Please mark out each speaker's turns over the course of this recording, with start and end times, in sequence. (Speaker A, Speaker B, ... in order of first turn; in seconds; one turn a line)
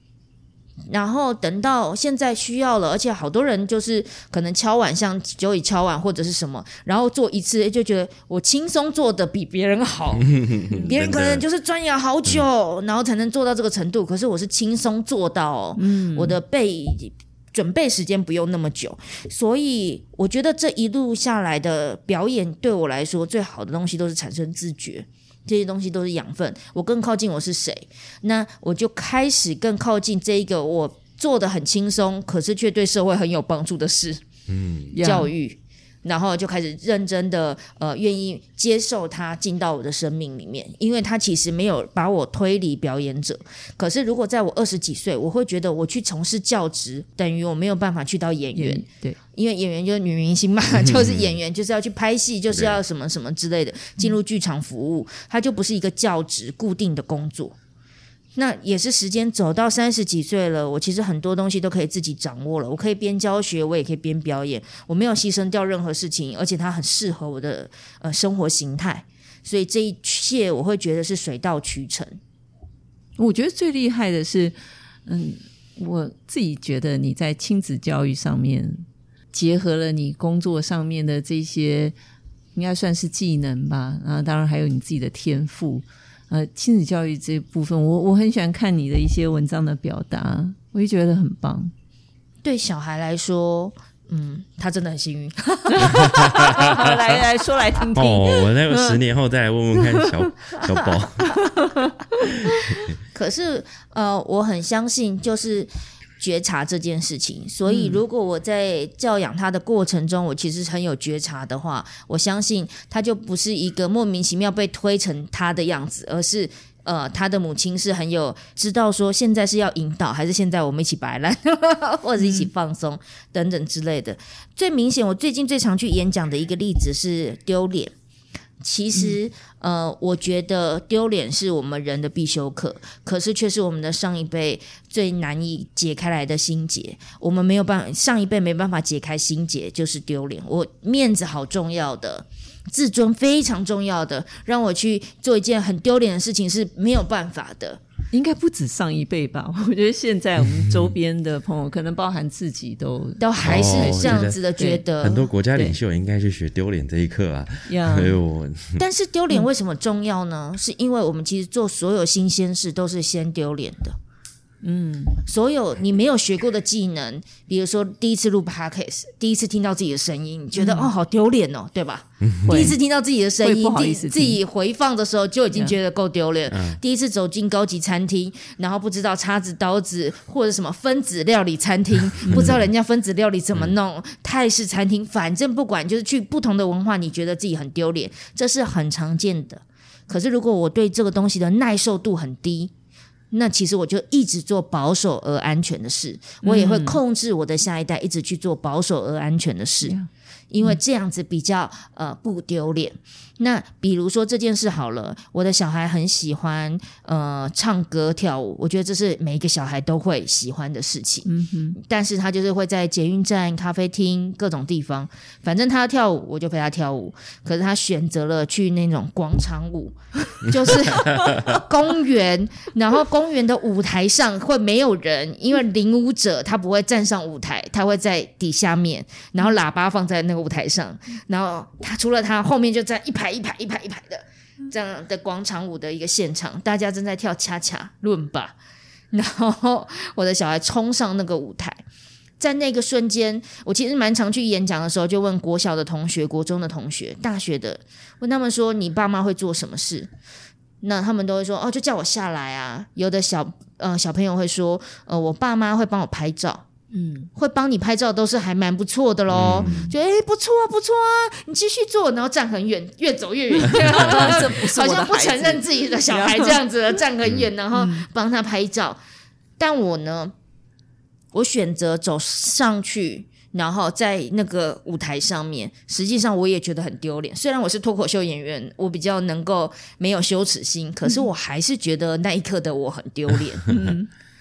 Speaker A: 0.9-34.2
Speaker B: 10.2-11.4
Speaker C: 15.8-16.4
Speaker B: 34.5-35.0
Speaker C: 34.9-35.3
Speaker A: 35.0-57.5
Speaker C: 48.5-49.2
Speaker B: 50.8-51.3
Speaker B: 52.5-52.8
Speaker A: 58.4-72.2
Speaker C: 73.2-74.5
Speaker C: 75.1-82.0
Speaker C: 82.5-91.7
Speaker A: 92.4-96.9
Speaker C: 95.8-99.0
Speaker B: 96.3-97.0
Speaker B: 97.9-101.4
Speaker C: 99.8-102.0
Speaker A: 103.1-127.9
Speaker C: 107.7-108.0
Speaker C: 122.2-122.5
Speaker A: 128.6-147.8
Speaker C: 148.1-154.8
Speaker B: 150.4-150.9
Speaker A: 153.2-155.3
Speaker B: 153.4-154.4
Speaker B: 155.0-158.8
Speaker C: 157.7-158.2
Speaker A: 158.8-164.0
Speaker C: 164.6-165.2
Speaker A: 165.3-192.7
Speaker C: 170.6-170.9
Speaker B: 172.2-172.7
Speaker C: 172.5-172.8
Speaker C: 173.4-174.4
Speaker B: 176.5-176.8
Speaker C: 182.2-182.6
Speaker B: 182.3-182.7
Speaker A: 193.3-200.0
Speaker C: 196.4-197.0
Speaker C: 199.8-200.1
Speaker A: 200.5-238.6
Speaker C: 211.3-211.8
Speaker A: 239.1-241.8
Speaker A: 242.4-250.1
Speaker A: 250.8-256.6
Speaker C: 256.9-257.3
Speaker A: 257.4-269.0
Speaker B: 259.3-259.9
Speaker C: 259.4-259.9
Speaker C: 263.6-266.6
Speaker B: 267.2-267.5
Speaker C: 267.7-268.1
Speaker A: 269.6-270.3
Speaker A: 271.3-283.7
Speaker C: 283.7-284.1